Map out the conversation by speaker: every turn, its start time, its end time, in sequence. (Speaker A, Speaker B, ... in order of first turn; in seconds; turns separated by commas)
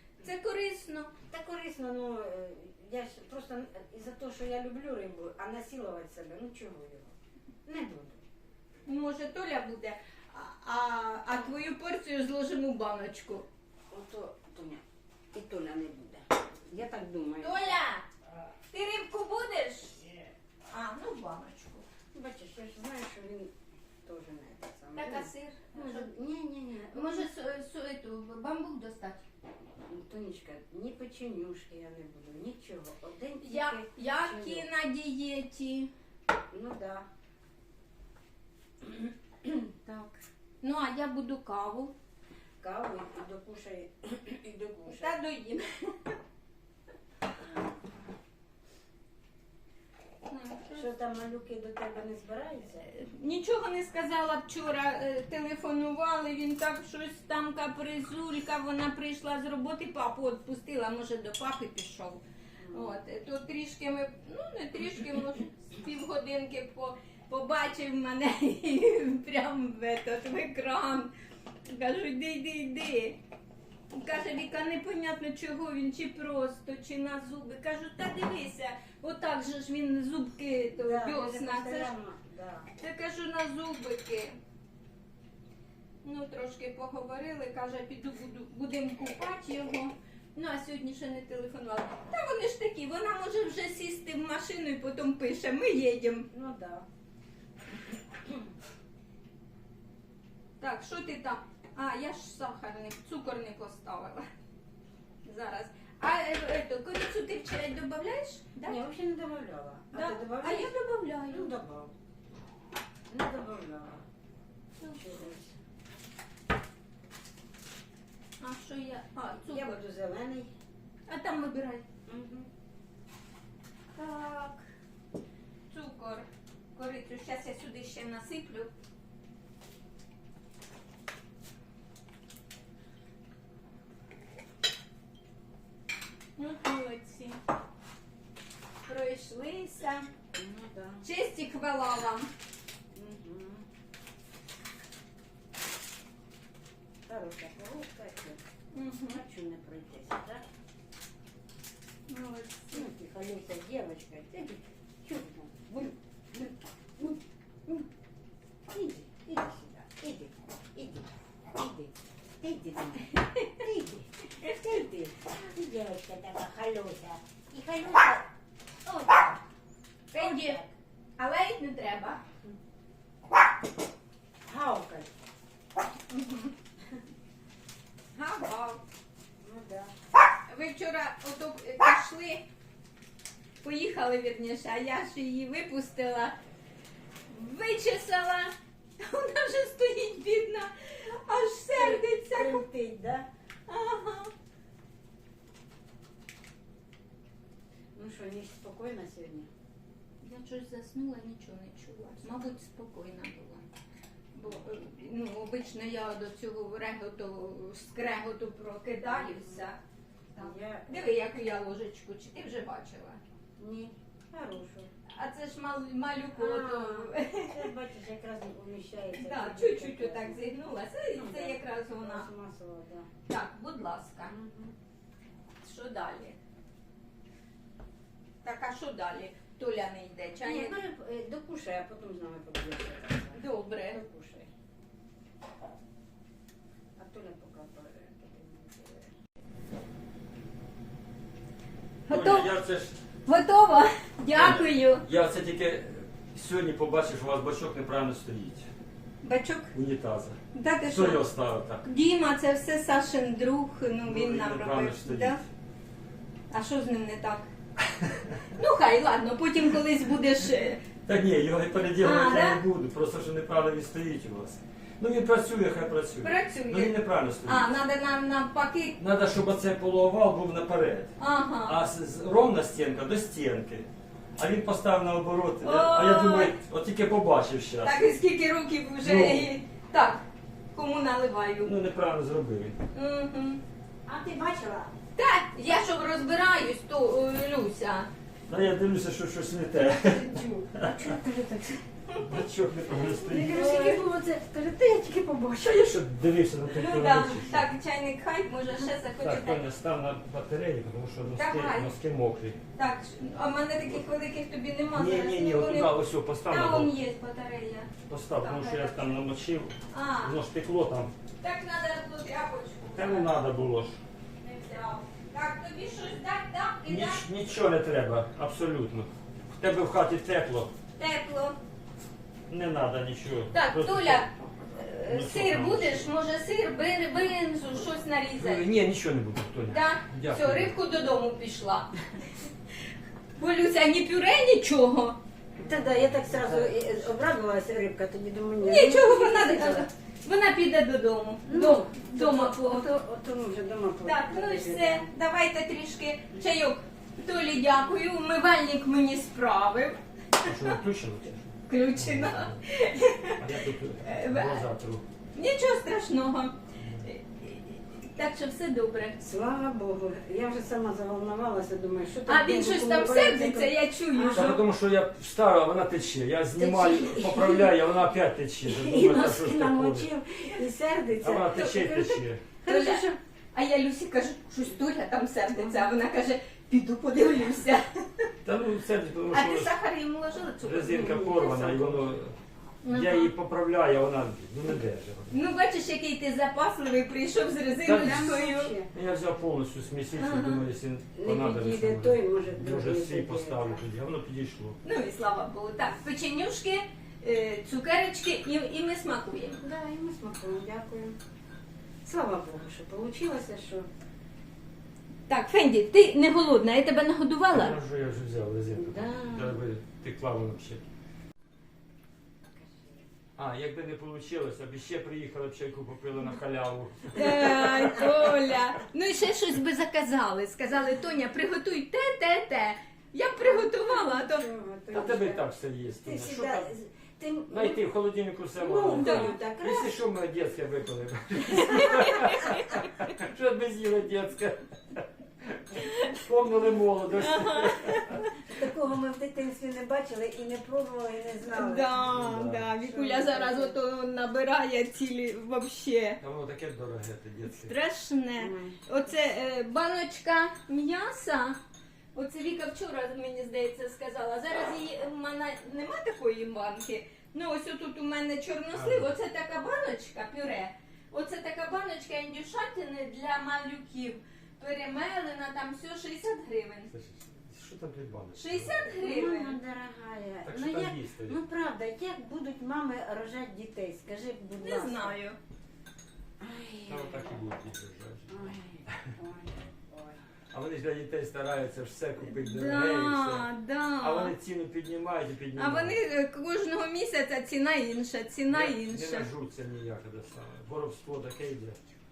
Speaker A: 0.2-1.1, Speaker B: 1.3-7.1, Speaker B: 7.7-8.2, Speaker A: 8.9-13.5, Speaker B: 13.9-17.8, Speaker A: 17.4-18.1, Speaker A: 18.7-20.0, Speaker A: 20.7-21.9, Speaker B: 22.1-23.5, Speaker B: 24.0-27.3, Speaker A: 24.9-26.1, Speaker A: 26.9-29.2, Speaker B: 29.9-34.7, Speaker A: 33.4-35.9, Speaker B: 36.5-37.1, Speaker B: 38.8-40.1, Speaker A: 40.6-41.9, Speaker B: 42.6-45.2, Speaker A: 44.9-46.1, Speaker A: 50.3-50.9, Speaker B: 50.7-52.9, Speaker A: 52.9-71.1, Speaker B: 62.6-63.0, Speaker A: 71.7-73.2, Speaker A: 73.9-81.9, Speaker B: 80.8-82.7, Speaker A: 82.8-84.4, Speaker A: 86.0-96.3, Speaker B: 96.3-96.9, Speaker A: 100.6-104.3, Speaker A: 105.2-108.8, Speaker B: 108.6-110.8, Speaker A: 109.9-111.5, Speaker B: 111.3-111.9, Speaker B: 113.1-114.0, Speaker A: 114.8-115.2, Speaker B: 114.9-115.5, Speaker A: 118.4-119.8, Speaker B: 119.5-120.5, Speaker A: 121.1-121.8, Speaker B: 122.1-122.5, Speaker A: 124.0-124.6, Speaker A: 125.7-128.7, Speaker A: 136.4-137.4, Speaker A: 138.9-140.1, Speaker B: 140.3-141.1, Speaker A: 141.0-142.3, Speaker B: 142.9-143.7, Speaker B: 147.1-148.4, Speaker A: 148.7-149.2, Speaker B: 149.1-150.4, Speaker A: 152.1-152.9, Speaker B: 152.7-157.8, Speaker B: 158.7-168.3, Speaker B: 168.8-169.4, Speaker A: 170.1-170.6, Speaker B: 170.2-170.7, Speaker A: 171.2-172.2, Speaker B: 174.5-175.1, Speaker A: 176.1-176.5, Speaker A: 178.1-178.8, Speaker B: 179.4-179.9, Speaker A: 180.5-182.4, Speaker A: 183.6-186.3, Speaker A: 187.3-192.6, Speaker B: 191.7-193.3, Speaker A: 193.7-194.3, Speaker B: 197.9-199.5, Speaker A: 200.2-203.6, Speaker A: 204.3-209.8, Speaker B: 209.0-209.7, Speaker B: 210.4-211.1, Speaker A: 210.4-213.2, Speaker B: 213.6-214.9, Speaker A: 215.1-217.7, Speaker B: 216.3-220.4, Speaker A: 219.2-222.3, Speaker B: 221.1-223.1, Speaker A: 223.3-224.3, Speaker B: 224.2-224.7, Speaker A: 225.6-226.4, Speaker A: 228.4-230.8, Speaker B: 230.4-234.5, Speaker A: 233.3-234.0, Speaker B: 237.0-239.1, Speaker A: 242.1-242.5, Speaker C: 242.1-243.0, Speaker A: 243.3-245.0, Speaker C: 244.3-248.7, Speaker A: 249.2-249.7, Speaker C: 249.7-251.8, Speaker A: 250.5-251.2, Speaker A: 251.8-255.4, Speaker C: 254.1-255.4, Speaker A: 256.5-257.5, Speaker C: 258.0-258.3, Speaker A: 258.5-260.8, Speaker C: 261.1-267.7, Speaker A: 262.0-262.6, Speaker A: 266.2-269.0, Speaker C: 269.0-278.1, Speaker A: 271.2-271.8, Speaker A: 275.6-276.6, Speaker A: 277.8-281.7, Speaker C: 279.0-279.5, Speaker C: 281.6-282.8, Speaker A: 282.9-283.6, Speaker B: 284.1-284.9, Speaker A: 285.2-288.1, Speaker C: 288.5-291.1, Speaker B: 290.0-291.8, Speaker C: 292.2-293.7, Speaker B: 293.1-295.9, Speaker A: 293.5-294.1, Speaker C: 295.6-297.6, Speaker A: 296.7-299.6, Speaker C: 299.2-302.6, Speaker A: 301.4-301.9, Speaker A: 302.8-305.9, Speaker C: 304.9-306.9, Speaker A: 306.5-309.2, Speaker C: 308.1-311.1, Speaker A: 309.9-310.4, Speaker A: 311.4-313.3, Speaker C: 312.9-314.0, Speaker A: 314.4-317.2, Speaker C: 316.9-320.7, Speaker A: 320.9-321.6, Speaker C: 322.5-324.3, Speaker A: 323.5-328.6, Speaker C: 325.1-326.1, Speaker C: 328.4-330.7, Speaker A: 329.7-331.9, Speaker A: 333.4-335.2, Speaker B: 335.6-339.9, Speaker C: 336.0-337.0, Speaker A: 338.6-342.9, Speaker B: 341.5-345.1, Speaker A: 344.0-350.5, Speaker C: 350.4-352.6, Speaker A: 351.7-353.4, Speaker C: 353.4-355.0, Speaker A: 354.0-354.6, Speaker A: 355.4-359.2, Speaker B: 359.2-364.6, Speaker A: 362.3-364.6, Speaker C: 364.3-370.1, Speaker B: 366.6-367.8, Speaker B: 368.6-373.2, Speaker C: 371.2-372.5, Speaker A: 372.6-378.3, Speaker B: 375.6-375.9, Speaker C: 378.4-379.7, Speaker A: 379.3-381.0, Speaker C: 380.6-382.4, Speaker B: 380.8-382.1, Speaker A: 382.8-383.3, Speaker C: 382.9-385.3, Speaker A: 385.3-388.7, Speaker C: 387.9-394.8, Speaker B: 387.9-388.9, Speaker A: 390.2-390.6, Speaker B: 391.1-393.8, Speaker A: 394.8-399.6, Speaker B: 399.6-401.2, Speaker B: 402.0-403.9, Speaker A: 405.3-407.8, Speaker C: 407.5-410.8, Speaker B: 408.8-409.6, Speaker B: 412.5-413.1, Speaker C: 413.4-418.3, Speaker A: 417.1-424.5, Speaker B: 423.4-425.4, Speaker C: 424.9-426.7, Speaker B: 426.0-427.8, Speaker C: 427.5-438.2, Speaker B: 428.6-430.0, Speaker A: 429.0-429.3, Speaker A: 431.5-432.9, Speaker A: 435.7-436.1, Speaker A: 437.1-438.3, Speaker B: 438.5-441.9, Speaker A: 441.5-446.2, Speaker C: 441.9-442.7, Speaker B: 442.8-443.8, Speaker C: 446.2-447.7, Speaker A: 447.5-451.6, Speaker B: 448.4-449.1, Speaker A: 452.1-466.9, Speaker C: 458.7-459.2, Speaker C: 466.9-468.9, Speaker A: 468.4-469.6, Speaker B: 469.0-475.2, Speaker C: 470.4-471.4, Speaker A: 474.6-475.4, Speaker B: 476.4-477.4, Speaker C: 476.9-479.1, Speaker B: 478.3-480.2, Speaker C: 480.5-486.0, Speaker A: 482.2-484.3, Speaker A: 485.6-489.3, Speaker C: 488.5-491.8